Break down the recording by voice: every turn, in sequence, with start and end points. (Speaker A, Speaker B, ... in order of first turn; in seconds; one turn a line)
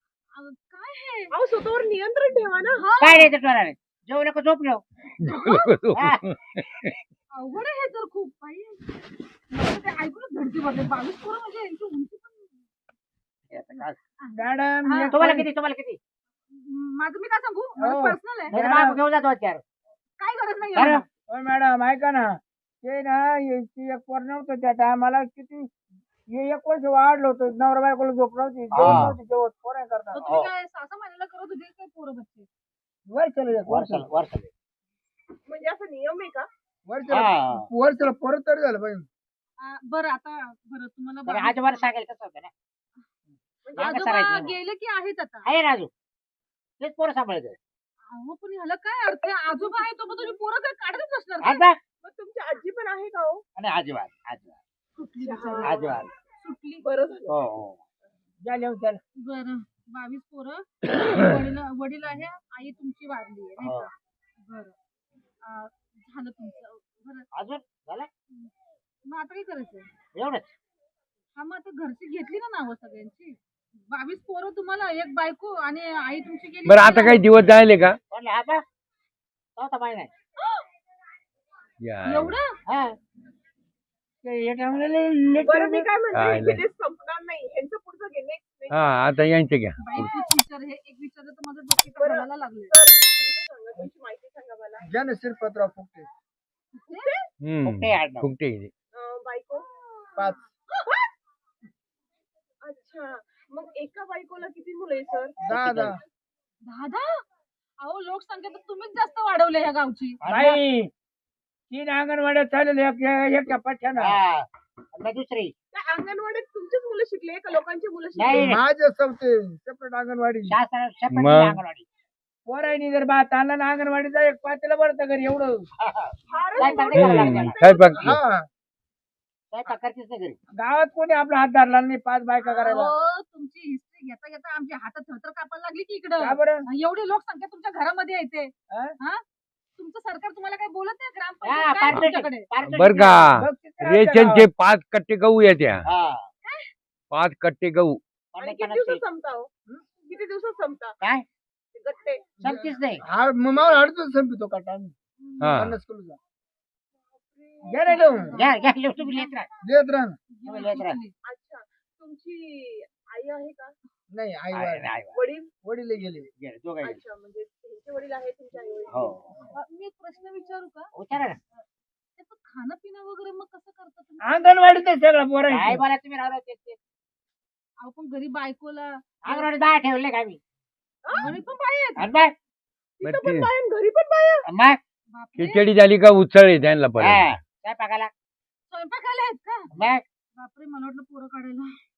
Speaker A: 0.3-1.3
Speaker B: 1.3-2.8
Speaker A: 2.8-3.3
Speaker C: 3.0-4.8
Speaker D: 5.2-7.0
Speaker A: 5.2-5.7
Speaker C: 5.9-6.2
Speaker A: 7.3-8.8
Speaker A: 9.5-12.5
Speaker C: 13.5-14.0
Speaker A: 13.7-15.2
Speaker E: 14.3-15.5
Speaker C: 15.1-16.0
Speaker A: 16.5-18.5
Speaker E: 17.8-19.0
Speaker C: 18.5-19.6
Speaker A: 20.2-21.0
Speaker C: 20.8-21.0
Speaker E: 21.3-25.7
Speaker E: 26.3-30.2
Speaker C: 28.7-29.1
Speaker A: 30.1-32.5
Speaker E: 33.1-34.0
Speaker C: 33.7-34.5
Speaker B: 35.5-36.5
Speaker E: 36.9-39.1
Speaker C: 37.1-37.7
Speaker A: 39.6-41.9
Speaker C: 41.3-42.5
Speaker B: 43.6-43.9
Speaker C: 43.8-44.5
Speaker A: 43.8-45.5
Speaker C: 45.4-45.9
Speaker C: 46.8-47.6
Speaker A: 48.1-51.6
Speaker C: 51.4-51.8
Speaker B: 52.0-53.4
Speaker C: 53.6-54.6
Speaker A: 55.0-56.8
Speaker B: 55.1-56.0
Speaker C: 55.6-56.1
Speaker B: 56.8-57.4
Speaker C: 57.3-57.8
Speaker E: 58.4-59.0
Speaker A: 59.2-64.7
Speaker C: 63.6-63.9
Speaker A: 65.4-67.2
Speaker C: 67.3-68.1
Speaker A: 69.0-69.9
Speaker C: 70.1-70.5
Speaker A: 71.3-77.2
Speaker D: 76.7-78.0
Speaker C: 78.1-78.6
Speaker C: 79.6-80.1
Speaker D: 81.8-82.3
Speaker A: 82.1-82.5
Speaker C: 82.7-83.0
Speaker E: 84.2-85.9
Speaker B: 85.4-89.0
Speaker D: 86.1-86.6
Speaker D: 88.7-90.1
Speaker A: 89.8-92.8
Speaker B: 91.9-94.9
Speaker E: 94.8-96.1
Speaker A: 96.7-97.1
Speaker B: 96.9-97.2
Speaker D: 97.4-98.7
Speaker C: 97.6-98.3
Speaker B: 98.9-99.6
Speaker B: 102.6-105.4
Speaker E: 105.4-106.0
Speaker C: 105.5-105.9
Speaker A: 106.7-107.1
Speaker A: 107.8-110.2
Speaker C: 110.2-110.6
Speaker E: 110.2-110.9
Speaker E: 111.7-114.2
Speaker C: 114.0-115.5
Speaker B: 115.7-118.6
Speaker C: 118.1-118.6
Speaker E: 118.3-120.5
Speaker C: 120.5-121.8
Speaker D: 121.1-121.6
Speaker E: 122.5-125.6
Speaker C: 125.8-127.6
Speaker B: 126.3-128.1
Speaker A: 126.5-127.3
Speaker D: 126.9-128.2
Speaker E: 128.0-128.4
Speaker C: 129.5-130.4
Speaker E: 130.6-132.9
Speaker A: 132.4-139.2
Speaker E: 136.2-136.6
Speaker E: 138.7-138.9
Speaker A: 139.8-142.5
Speaker C: 141.4-143.3
Speaker D: 142.6-145.8
Speaker E: 143.3-144.5
Speaker C: 145.8-146.3
Speaker A: 146.4-146.7
Speaker D: 147.1-148.0
Speaker C: 148.3-149.0
Speaker B: 148.4-149.5
Speaker B: 150.1-150.9
Speaker B: 151.7-152.4
Speaker C: 152.4-153.0
Speaker E: 152.4-154.9
Speaker A: 155.2-155.6
Speaker D: 155.4-155.8
Speaker E: 155.5-156.2
Speaker B: 157.3-158.6
Speaker E: 157.6-158.3
Speaker A: 157.8-159.3
Speaker C: 158.3-159.5
Speaker E: 159.6-160.2
Speaker A: 160.3-161.1
Speaker C: 160.4-161.0
Speaker B: 161.3-163.7
Speaker E: 164.1-164.9
Speaker C: 164.5-165.2
Speaker B: 165.1-165.5
Speaker E: 165.6-166.3
Speaker C: 166.4-167.0
Speaker B: 166.8-169.2
Speaker C: 168.9-169.3
Speaker A: 169.5-170.9
Speaker C: 170.9-171.4
Speaker A: 172.2-174.7
Speaker E: 174.2-175.8
Speaker C: 175.5-176.8
Speaker A: 177.8-179.5
Speaker C: 179.2-180.4
Speaker B: 181.0-181.3
Speaker A: 181.1-182.1
Speaker C: 182.0-182.3
Speaker B: 183.0-184.4
Speaker D: 183.0-183.5
Speaker C: 184.5-184.8
Speaker A: 185.1-185.7
Speaker D: 185.4-187.3
Speaker C: 187.0-188.1
Speaker A: 188.7-189.7
Speaker C: 189.7-190.0
Speaker A: 190.3-191.8